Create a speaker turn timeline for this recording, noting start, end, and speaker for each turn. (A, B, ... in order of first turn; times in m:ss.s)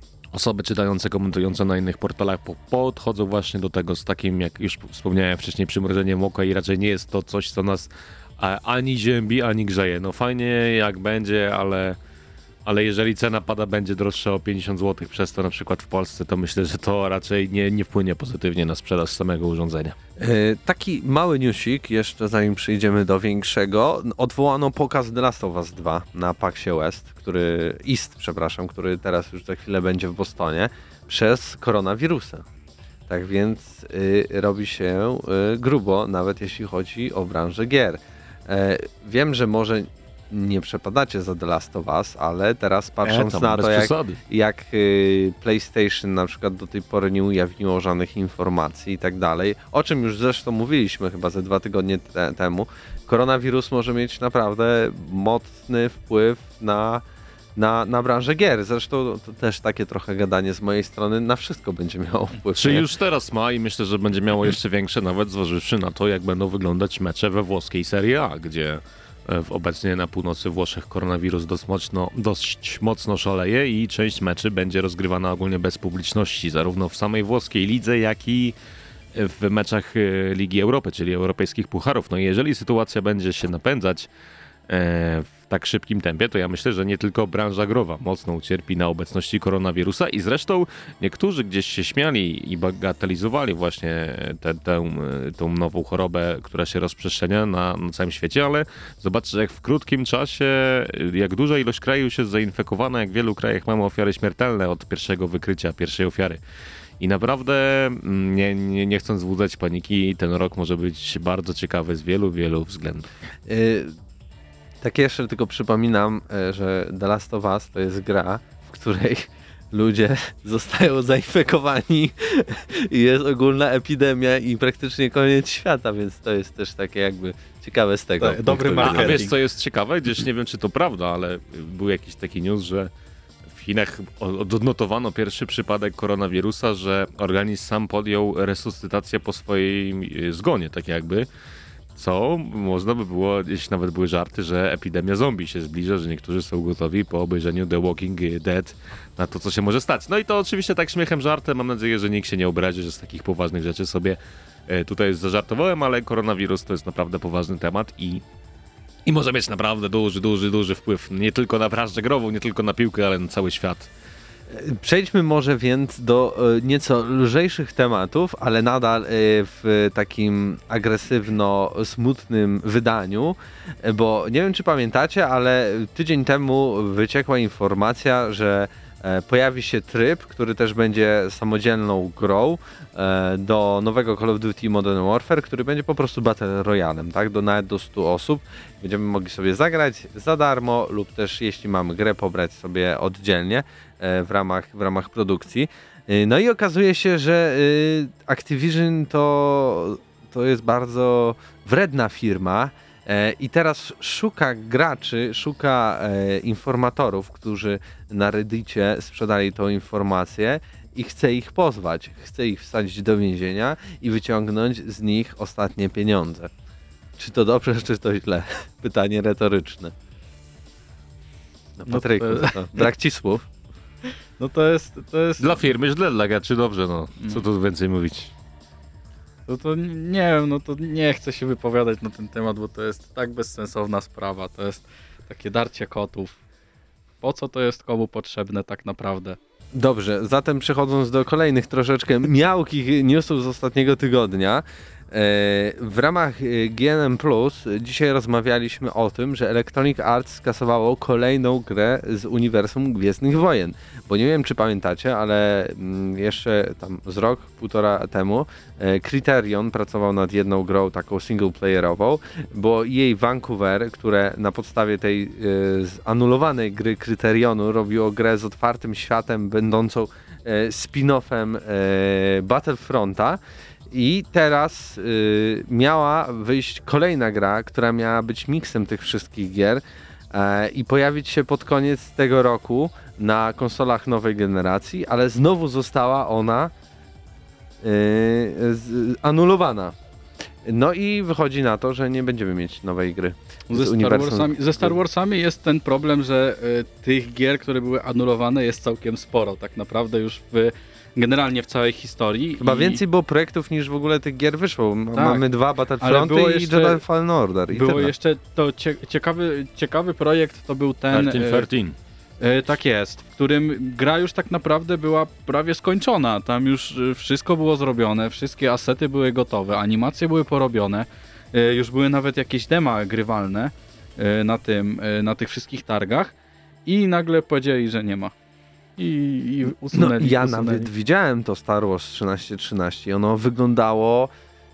0:00.3-0:12.0 A
0:12.6-0:20.0 A
0:20.2-0:32.4 B
0:33.1-0:57.0 B
0:43.0-0:44.2 A
0:57.6-1:02.9 B
1:02.6-1:18.6 A
1:19.1-1:24.1 A
1:24.7-1:46.4 A
1:47.0-1:53.1 A
1:53.5-1:53.9 B
1:54.8-2:09.2 B
2:08.2-2:09.4 C
2:08.8-2:12.9 A
2:13.5-2:21.3 A
2:22.0-2:38.2 A
2:39.1-2:43.9 A
2:44.5-3:36.5 B
3:37.2-3:39.9 B
3:41.8-3:43.4 B
3:41.9-3:42.9 C
3:44.4-3:45.6 C
3:45.4-3:48.3 A
3:49.5-3:56.4 C
3:57.2-3:59.4 C
3:59.7-4:33.4 B
4:33.9-4:46.7 B
4:47.8-4:50.0 B
4:50.6-4:55.0 B
4:53.7-5:03.0 C
5:02.6-5:08.1 B
5:05.2-5:05.4 C
5:06.0-5:07.0 C
5:07.7-5:11.7 C
5:11.1-5:12.0 A
5:12.4-5:26.3 C
5:26.9-5:28.3 C
5:29.0-5:30.9 C
5:29.9-5:34.3 B